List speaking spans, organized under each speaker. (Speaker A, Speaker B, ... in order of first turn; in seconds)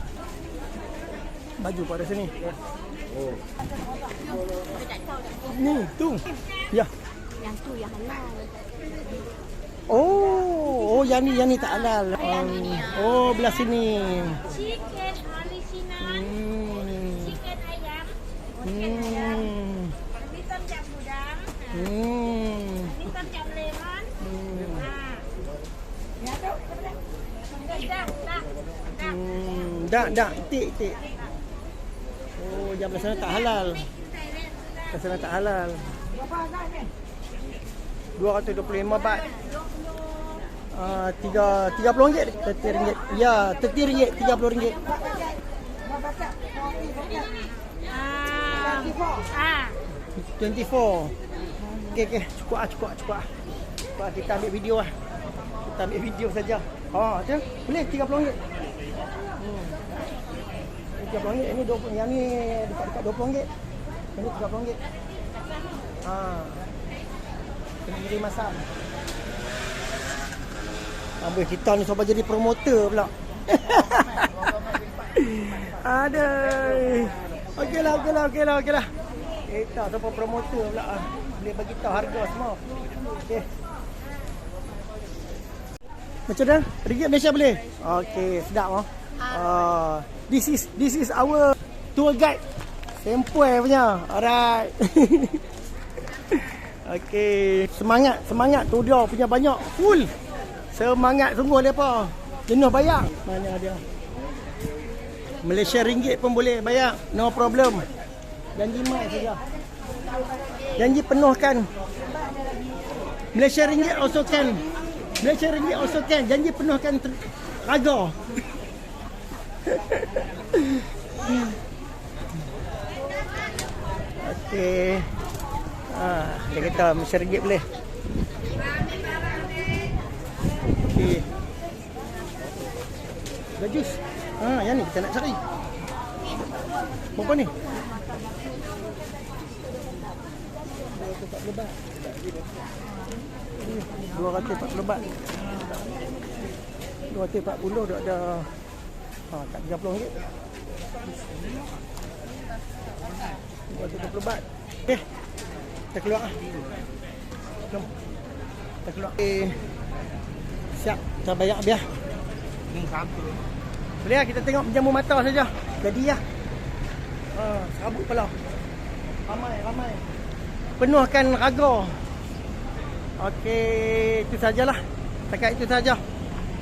Speaker A: 1.6-2.4, 5.4-6.9, 9.9-14.6, 15.9-17.6, 18.6-20.0, 21.7-23.3, 24.1-25.1, 29.0-31.0, 32.4-33.9, 34.9-36.0, 38.2-39.3, 40.7-45.0, 50.2-51.1, 51.8-53.3, 54.0-54.9, 55.6-58.4, 59.4-59.8, 61.0-63.5, 64.2-64.8, 66.0-66.7, 67.8-68.7, 71.2-74.5, 75.1-78.9, 79.5-82.6, 86.3-92.4, 93.0-95.4, 96.3-100.1, 100.7-103.8, 105.4-107.9, 108.6-109.4, 110.8-111.7, 113.3-114.7, 115.2-118.2, 119.7-121.4, 124.2-125.1, 125.9-127.7, 130.9-131.3, 133.6-135.4, 137.2-137.5, 140.9-141.9, 143.6-145.2, 147.1-148.5, 149.3-150.2, 153.7-155.1, 155.9-156.5, 158.8-159.6, 160.7-161.9, 164.0-166.2, 167.3-168.4, 169.3-170.0, 170.8-172.0, 173.2-176.0
Speaker B: 7.4-8.6, 14.5-16.0, 17.6-18.2, 20.2-21.7, 23.2-24.1, 27.6-28.4, 46.8-47.3, 47.9-49.8